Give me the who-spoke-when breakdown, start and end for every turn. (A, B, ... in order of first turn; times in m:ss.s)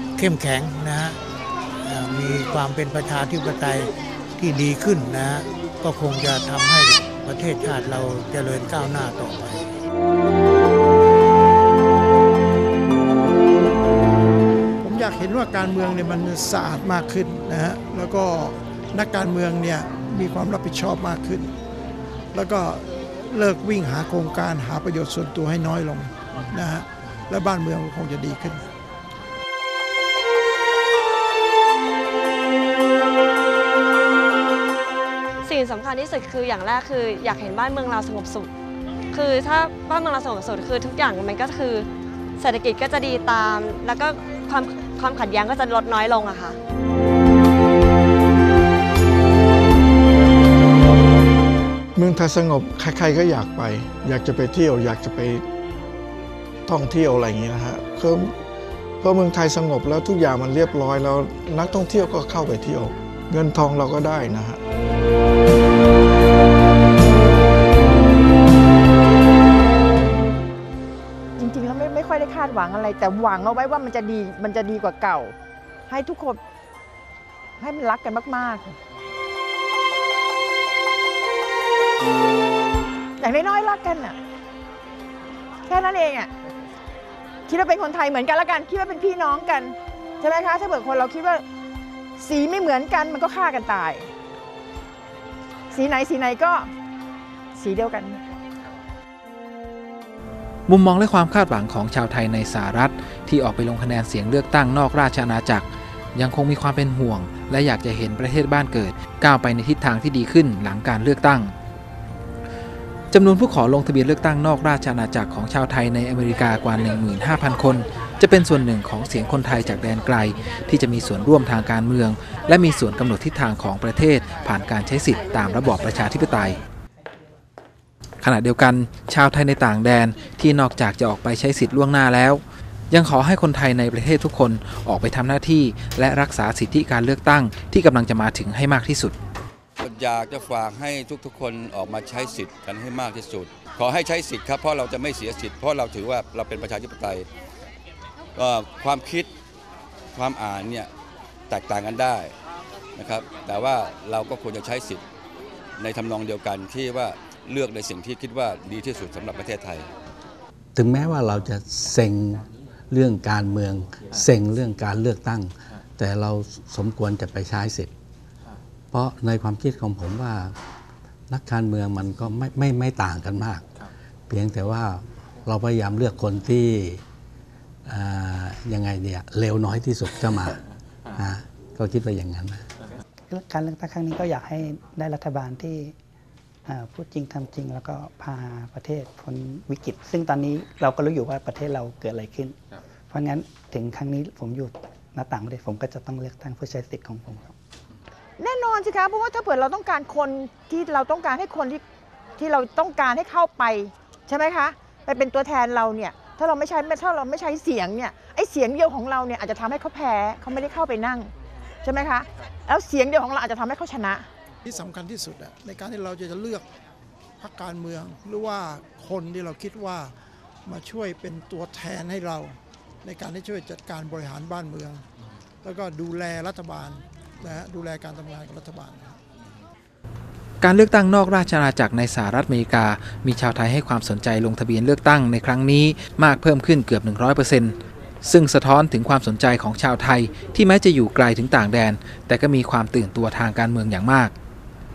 0:00.2-0:01.2 A
0:01.8-0:09.6 A
0:14.8-0:21.5 B
0:22.3-0:28.6 B
0:35.4-0:38.5 C
0:39.1-0:41.9 C
0:42.4-0:46.6 C
0:52.0-0:55.4 D
0:56.7-0:58.4 D
0:59.0-1:04.6 D
1:11.4-1:15.3 E
1:15.9-1:16.4 E
1:17.6-1:18.7 E
1:23.2-1:24.2 E
1:25.6-1:26.3 E
1:27.5-1:31.4 E
1:32.2-1:34.1 E
1:35.7-1:36.7 E
1:37.5-1:38.2 E
1:40.7-1:51.5 F
1:53.1-2:06.6 F
2:08.2-2:19.1 F
2:19.8-2:27.3 G
2:28.4-2:29.3 G
2:30.1-2:30.9 G
2:31.5-2:32.3 G
2:33.0-2:35.0 G
2:35.8-2:39.9 G
2:40.7-2:47.9 H
2:48.9-2:50.6 H
2:51.3-2:53.7 H
2:54.3-2:57.0 H
2:57.8-3:00.6 H
3:01.1-3:02.7 H
3:03.3-3:05.9 I
3:06.7-3:12.6 I
3:13.1-3:17.5 I
3:18.4-3:21.8 E
3:22.4-3:31.3 E
3:31.8-3:34.3 E
3:34.6-3:36.6 B
3:37.4-3:40.1 B
3:40.6-3:45.0 B
3:45.6-3:49.2 B
3:50.6-4:04.3 F